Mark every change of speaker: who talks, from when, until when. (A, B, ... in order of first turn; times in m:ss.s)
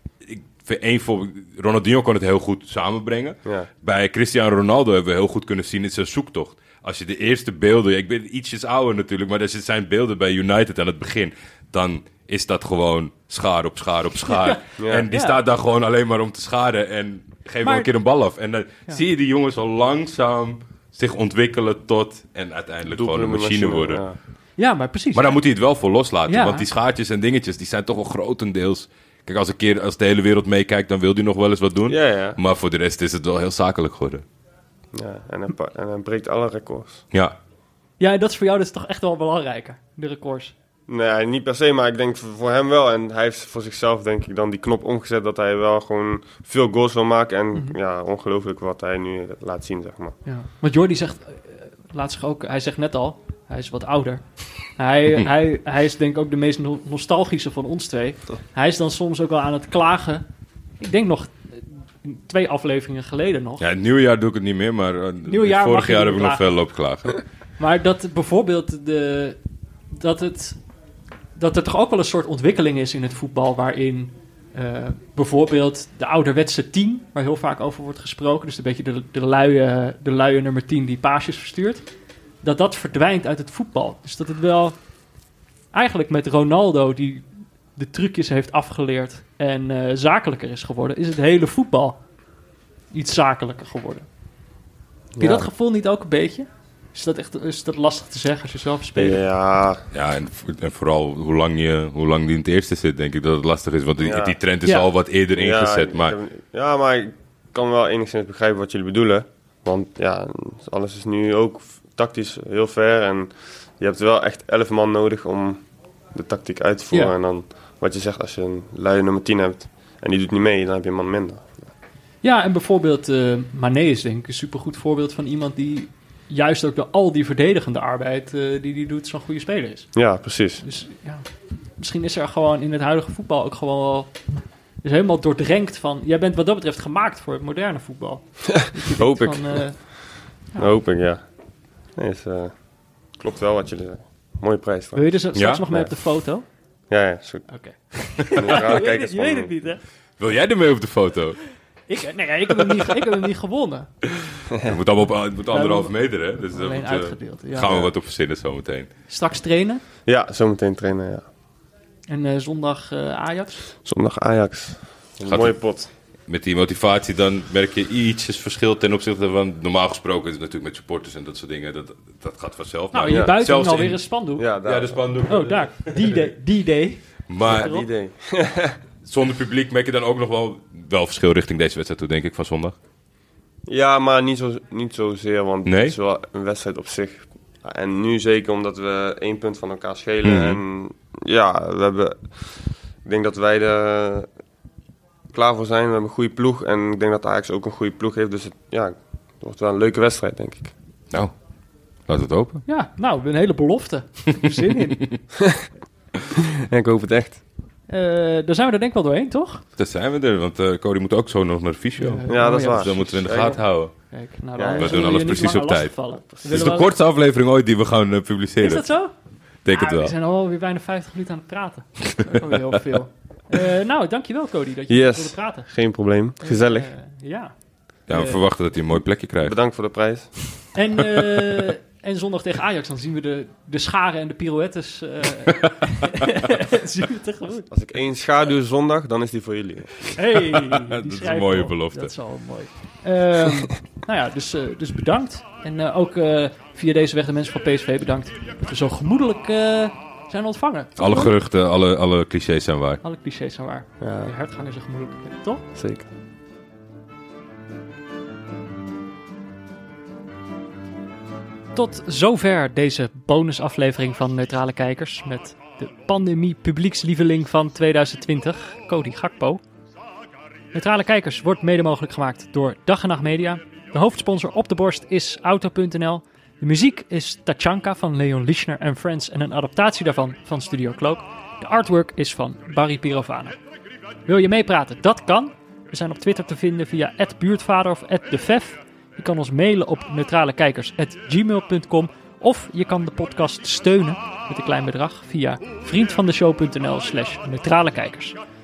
0:00.2-0:24.1 A
0:14.3-0:14.6 B
0:14.8-0:15.1 C
0:15.1-0:15.4 B
0:17.6-0:17.9 B
0:22.9-0:24.2 C
0:24.6-0:25.4 B
0:25.2-0:34.2 A
0:26.3-0:26.6 B
0:31.9-0:32.4 C
0:34.9-0:37.0 C
0:38.0-0:40.5 B
0:40.9-0:50.2 C
0:50.2-1:00.2 B
1:00.8-1:03.6 B
1:03.6-1:07.2 A
1:05.3-1:06.5 B
1:07.6-1:09.4 B
1:09.9-1:10.6 B
1:11.4-1:21.9 B
1:22.4-1:25.2 B
1:25.7-1:32.1 B
1:32.9-1:34.1 B
1:35.2-1:35.5 C
1:35.2-1:39.2 B
1:39.0-1:39.9 C
1:39.9-1:46.2 A
1:44.0-1:44.4 C
1:45.4-2:01.7 C
2:02.2-2:10.1 B
2:09.9-2:10.6 C
2:10.6-2:20.7 B
2:18.8-2:21.3 C
2:21.9-2:25.1 C
2:25.0-2:26.5 B
2:25.4-2:25.6 A
2:25.7-2:25.9 C
2:26.9-2:27.5 C
2:27.5-2:29.8 B
2:28.0-2:29.6 C
2:30.2-2:31.5 A
2:31.9-2:33.9 B
2:34.5-2:34.8 C
2:34.5-2:38.9 A
2:35.5-2:37.7 B
2:37.6-2:37.9 C
2:39.1-2:39.8 B
2:40.1-2:41.3 C
2:42.1-2:43.7 B
2:43.8-2:45.9 C
2:45.2-2:56.2 A
2:52.9-2:54.4 B
2:53.1-2:53.4 C
2:54.4-2:55.2 C
2:55.3-2:57.9 B
2:57.3-2:57.7 A
2:57.4-2:58.8 C
2:59.0-3:02.8 A
3:03.7-3:14.3 C
3:05.7-3:06.0 A
3:10.2-3:10.6 A
3:15.3-3:20.7 C
3:21.1-3:21.4 A
3:22.0-3:22.6 A
3:22.7-3:25.1 B
3:26.7-3:27.4 C
3:27.9-3:29.6 B
3:29.8-3:34.2 A
3:32.0-3:36.9 B
3:32.3-3:33.6 C
3:34.6-3:35.2 C
3:34.7-3:40.1 A
3:36.3-3:36.8 C
3:38.6-3:48.4 B
3:44.9-3:46.9 C
3:48.1-3:49.6 A
3:49.4-3:50.7 C
3:50.7-3:57.7 B
3:57.7-4:00.2 C
4:00.2-4:11.3 B
4:00.7-4:02.2 A
4:11.0-4:13.0 A
4:13.0-4:15.7 B
4:14.0-4:14.3 C
4:15.8-4:16.1 C
4:21.8-4:29.6 B
4:30.7-4:43.6 B
4:44.3-4:58.4 B